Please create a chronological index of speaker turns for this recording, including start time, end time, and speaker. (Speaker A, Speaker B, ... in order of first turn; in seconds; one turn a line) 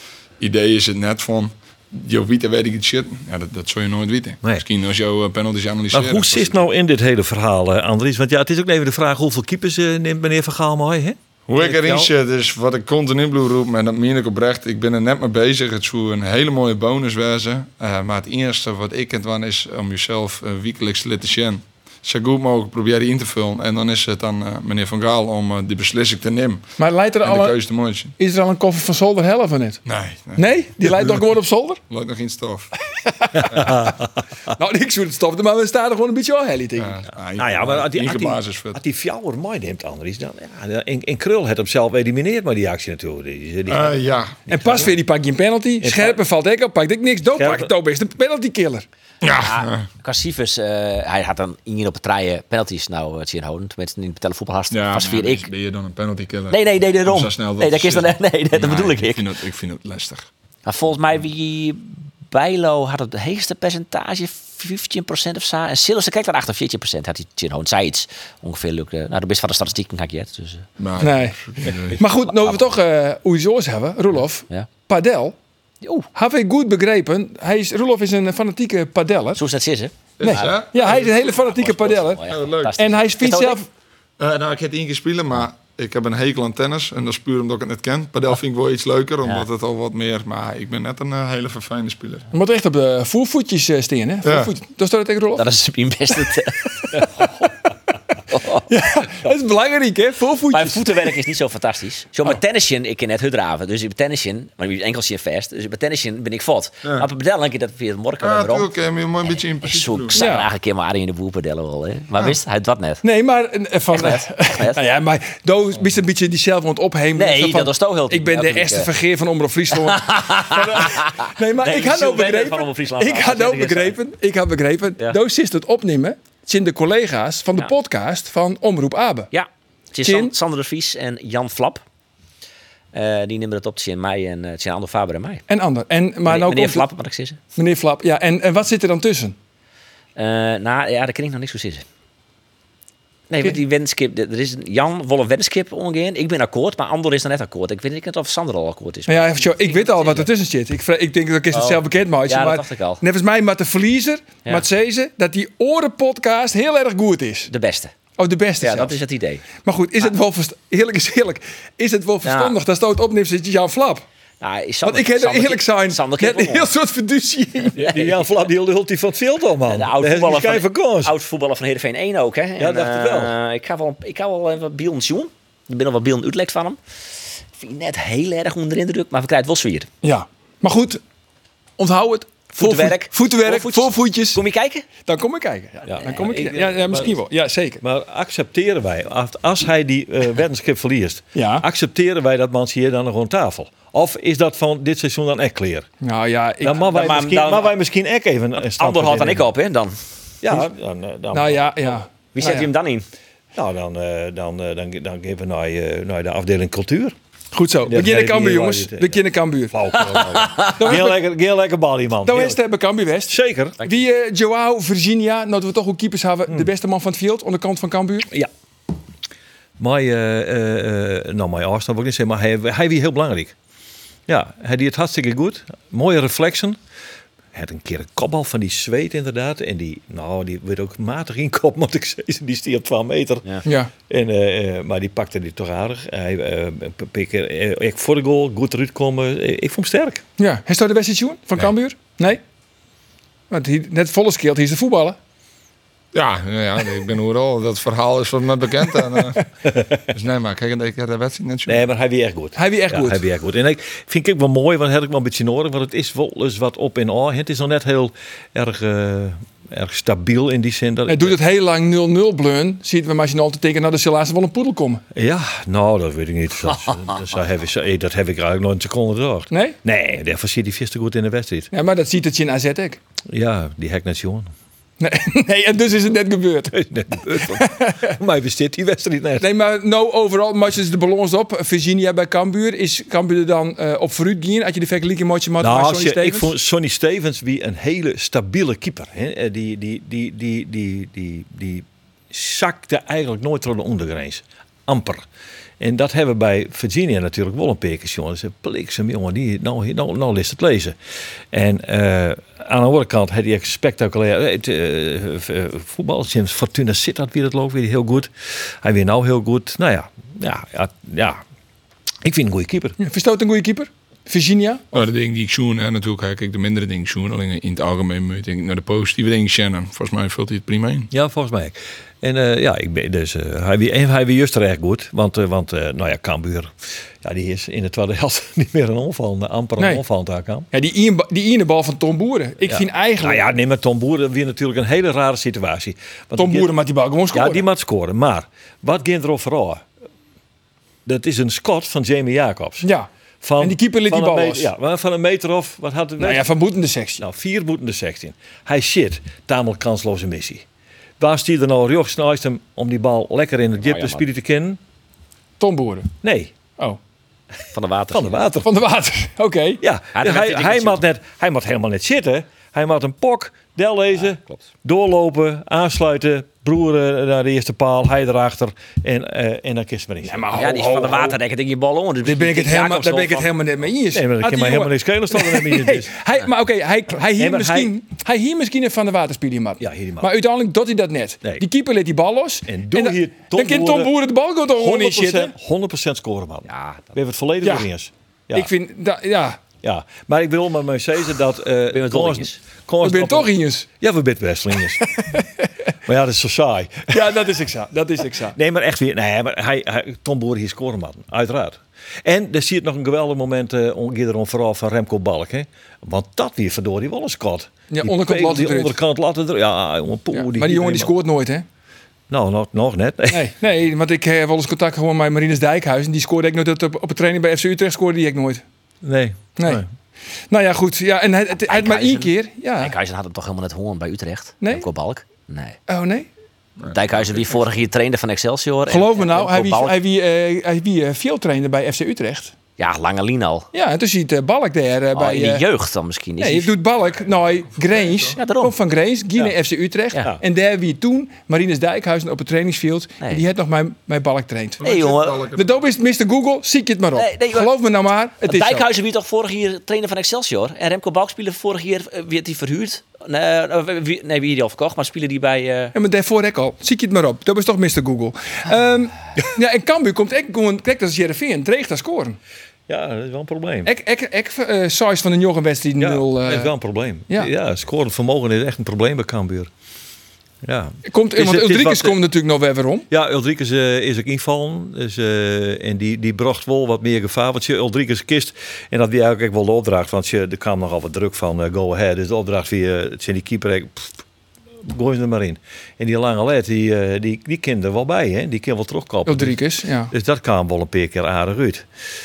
Speaker A: 0.4-6.6
Speaker B: 5.9-12.1
Speaker A: 11.5-26.7
Speaker C: 26.8-27.6
Speaker A: 27.2-28.1
Speaker C: 28.2-29.8
Speaker A: 29.9-31.3
Speaker C: 30.4-31.8
Speaker A: 31.9-32.8
Speaker C: 33.1-33.7
Speaker A: 33.5-33.8
Speaker B: 33.5-34.0
Speaker C: 34.6-37.0
Speaker A: 36.8-38.8
Speaker B: 37.4-44.9
Speaker A: 43.7-44.8
Speaker C: 44.5-48.9
Speaker B: 45.8-46.2
Speaker B: 47.4-47.7
Speaker A: 49.2-49.9
Speaker D: 49.4-55.5
Speaker A: 54.7-60.3
Speaker D: 56.5-59.2
Speaker D: 60.7-70.7
Speaker A: 70.8-72.0
Speaker C: 71.0-71.4
Speaker C: 72.0-75.3
Speaker D: 72.4-72.7
Speaker D: 75.8-76.1
Speaker C: 76.2-79.4
Speaker D: 79.4-80.7
Speaker A: 80.2-81.2
Speaker C: 80.2-82.2
Speaker D: 81.3-83.6
Speaker A: 82.3-82.8
Speaker C: 82.8-83.7
Speaker A: 84.2-92.3
Speaker C: 92.3-95.5
Speaker A: 94.2-94.5
Speaker D: 95.4-97.0
Speaker D: 98.3-98.7
Speaker C: 98.7-101.1
Speaker D: 100.5-108.7
Speaker A: 108.2-110.2
Speaker D: 109.6-113.0
Speaker C: 110.2-110.5
Speaker C: 113.0-129.3
Speaker D: 113.9-114.8
Speaker D: 117.2-118.9
Speaker D: 119.8-124.0
Speaker D: 129.3-131.8
Speaker C: 130.0-130.3
Speaker D: 132.9-135.4
Speaker C: 135.5-136.9
Speaker D: 136.3-137.4
Speaker C: 137.6-139.3
Speaker D: 140.2-141.8
Speaker D: 143.3-150.3
Speaker C: 149.1-157.5
Speaker D: 151.5-153.0
Speaker D: 157.5-157.9
Speaker C: 158.2-158.9
Speaker D: 158.6-159.4
Speaker C: 159.6-164.0
Speaker D: 162.2-162.6
Speaker D: 164.4-166.7
Speaker C: 164.8-167.8
Speaker D: 167.8-168.3
Speaker B: 167.8-171.1
Speaker D: 169.7-176.8
Speaker B: 172.6-173.3
Speaker D: 177.5-179.9
Speaker C: 180.0-181.0
Speaker C: 181.8-184.4
Speaker D: 182.5-184.9
Speaker C: 185.1-187.8
Speaker B: 185.9-187.2
Speaker D: 186.0-186.4
Speaker B: 187.8-195.9
Speaker C: 191.3-191.7
Speaker C: 196.0-196.9
Speaker B: 196.6-199.4
Speaker D: 196.9-197.7
Speaker D: 198.6-199.9
Speaker B: 200.4-202.0
Speaker C: 201.3-202.7
Speaker D: 202.3-203.1
Speaker B: 203.6-207.2
Speaker C: 207.5-209.8
Speaker B: 207.8-212.6
Speaker D: 210.3-210.8
Speaker C: 210.8-211.2
Speaker C: 212.2-218.3
Speaker B: 213.3-213.8
Speaker B: 219.8-223.5
Speaker B: 224.3-226.8
Speaker B: 227.5-233.5
Speaker C: 233.7-233.9
Speaker B: 234.1-240.2
Speaker C: 240.4-242.4
Speaker C: 243.5-245.2
Speaker A: 246.1-249.4
Speaker A: 250.1-251.8
Speaker B: 251.7-261.4
Speaker C: 252.6-253.2
Speaker C: 261.1-265.0
Speaker B: 265.1-271.7
Speaker C: 269.5-269.8
Speaker C: 271.7-273.0
Speaker B: 273.3-274.5
Speaker C: 275.0-278.2
Speaker B: 276.7-279.5
Speaker C: 279.4-286.5
Speaker B: 285.6-295.3
Speaker B: 295.8-301.0
Speaker B: 301.5-311.4
Speaker B: 312.2-313.0
Speaker C: 313.0-314.9
Speaker A: 314.9-321.1
Speaker B: 321.1-330.7
Speaker C: 330.7-333.6
Speaker B: 332.7-336.7
Speaker C: 336.4-337.6
Speaker B: 337.3-339.9
Speaker B: 341.1-342.9
Speaker C: 342.8-343.1
Speaker B: 343.4-346.5
Speaker C: 343.6-344.7
Speaker C: 346.2-347.2
Speaker B: 347.2-350.6
Speaker B: 351.2-354.8
Speaker D: 353.8-354.2
Speaker C: 355.6-356.1
Speaker B: 356.2-356.5
Speaker D: 357.7-358.4
Speaker B: 358.1-358.7
Speaker C: 358.6-359.8
Speaker B: 359.8-370.6
Speaker D: 360.1-361.0
Speaker C: 370.2-371.4
Speaker D: 370.5-373.5
Speaker C: 372.2-385.5
Speaker B: 374.1-376.1
Speaker B: 377.4-377.9
Speaker B: 379.8-380.3
Speaker B: 382.7-384.1
Speaker B: 384.8-388.7
Speaker D: 386.7-387.1
Speaker C: 387.6-387.9
Speaker C: 388.5-389.6
Speaker B: 389.8-395.1
Speaker D: 391.9-392.6
Speaker C: 393.0-393.9
Speaker C: 395.0-395.5
Speaker B: 396.1-397.4
Speaker C: 397.1-398.6
Speaker B: 398.5-411.1
Speaker C: 407.9-409.0
Speaker C: 410.3-411.6
Speaker B: 412.3-413.5
Speaker C: 413.3-418.6
Speaker B: 419.0-419.9
Speaker C: 419.6-419.8
Speaker C: 420.5-422.9
Speaker D: 421.6-425.8
Speaker C: 424.6-424.9
Speaker C: 425.9-426.3
Speaker A: 426.8-427.6
Speaker D: 426.9-430.0
Speaker C: 428.9-432.5
Speaker D: 432.8-433.7
Speaker C: 433.7-435.6
Speaker D: 435.1-436.7
Speaker C: 436.4-444.8
Speaker A: 437.1-438.4
Speaker D: 438.4-438.7
Speaker A: 444.8-445.8
Speaker D: 444.8-445.4
Speaker C: 445.6-448.9
Speaker D: 447.2-447.7
Speaker D: 448.4-455.9
Speaker C: 455.9-462.4
Speaker B: 462.9-463.9
Speaker C: 463.9-466.7
Speaker B: 466.0-469.7
Speaker B: 470.6-472.2
Speaker C: 471.1-473.1
Speaker B: 473.1-484.2
Speaker B: 484.8-489.6
Speaker C: 489.3-490.1
Speaker B: 490.1-491.9